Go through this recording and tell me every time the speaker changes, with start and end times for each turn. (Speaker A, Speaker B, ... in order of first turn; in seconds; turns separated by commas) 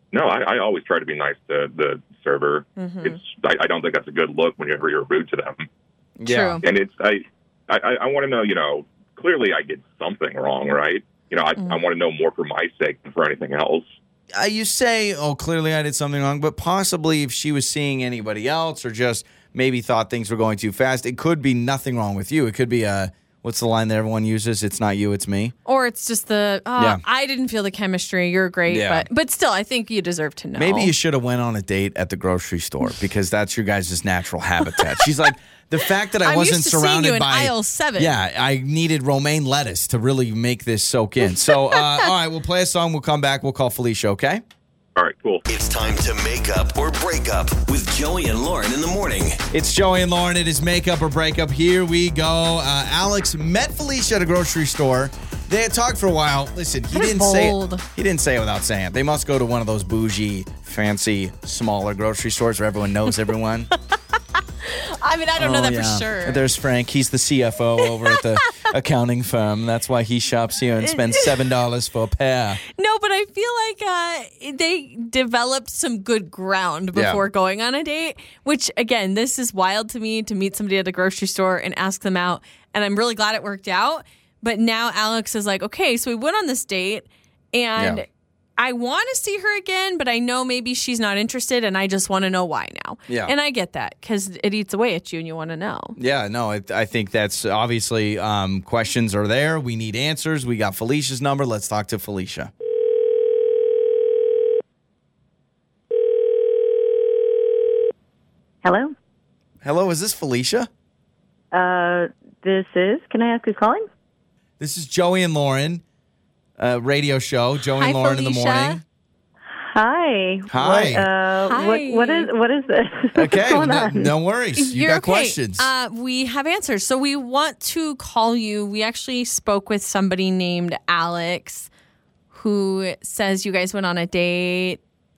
Speaker A: 0.1-5.7, Speaker B: 2.8-3.2, Speaker C: 6.2-6.6, Speaker B: 6.3-6.6, Speaker A: 6.6-13.9, Speaker B: 11.6-11.8, Speaker C: 14.3-25.5, Speaker B: 25.6-30.9, Speaker C: 26.8-27.0, Speaker C: 28.7-29.1, Speaker C: 30.6-44.4, Speaker B: 36.2-38.2, Speaker B: 41.5-42.1, Speaker A: 45.0-45.5, Speaker D: 45.5-49.4, Speaker C: 49.5-63.7, Speaker B: 56.9-57.8, Speaker B: 64.4-66.4, Speaker C: 65.4-72.6, Speaker B: 70.8-71.3, Speaker B: 72.7-96.0, Speaker C: 76.9-77.2, Speaker C: 87.8-88.0, Speaker C: 93.1-93.3, Speaker C: 96.0-102.5, Speaker E: 108.6-108.9, Speaker C: 109.6-110.7, Speaker E: 111.5-113.8, Speaker C: 114.6-115.8, Speaker C: 116.6-118.8, Speaker B: 117.8-118.8, Speaker E: 119.7-124.1, Speaker C: 120.5-121.1, Speaker B: 121.5-122.3, Speaker C: 123.2-125.7, Speaker B: 124.6-131.7, Speaker B: 132.3-134.8